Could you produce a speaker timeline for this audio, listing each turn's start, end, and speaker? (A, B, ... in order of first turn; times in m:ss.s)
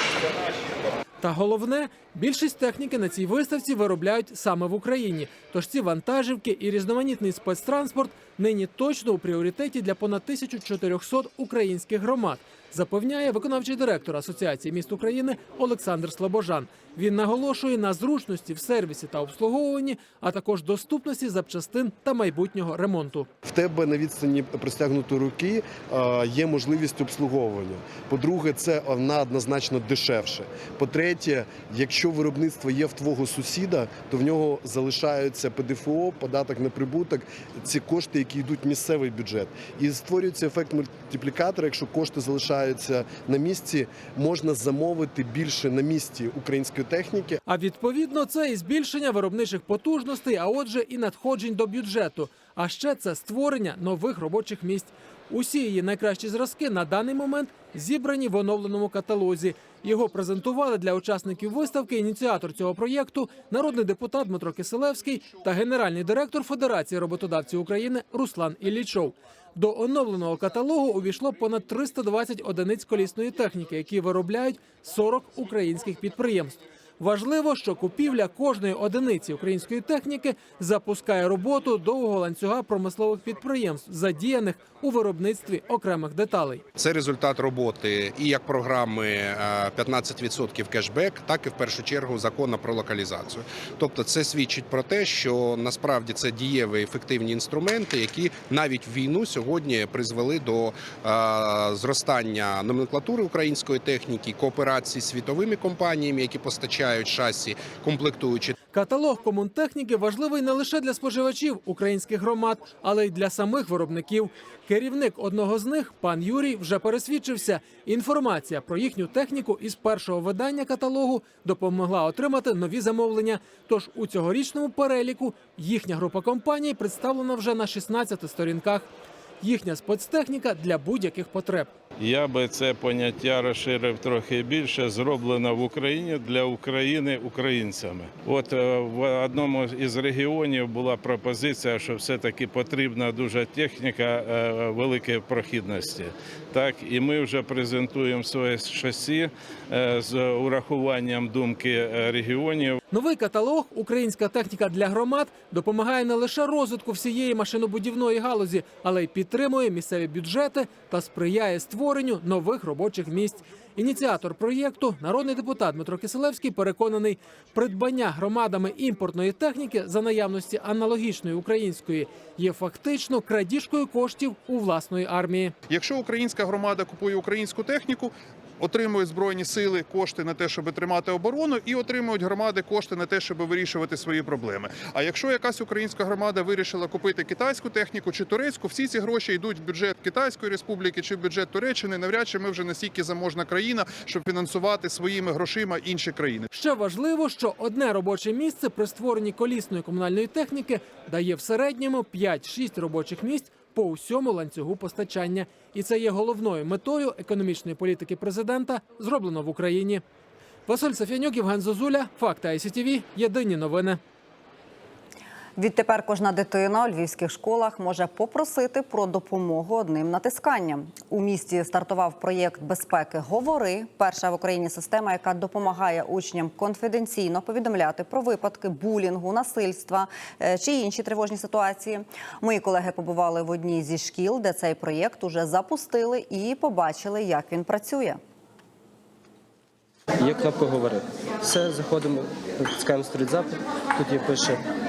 0:01.2-0:23.3 A
0:23.4-0:47.4 B
0:47.5-1:26.6 A
1:26.8-1:48.6 C
1:48.7-2:08.9 A
2:09.4-2:11.7 A
2:12.0-2:32.8 D
2:32.9-2:55.5 A
2:55.7-3:16.5 E
3:16.5-3:30.0 A
3:30.7-3:34.0 A
3:35.6-3:58.2 F
4:00.2-4:04.6 G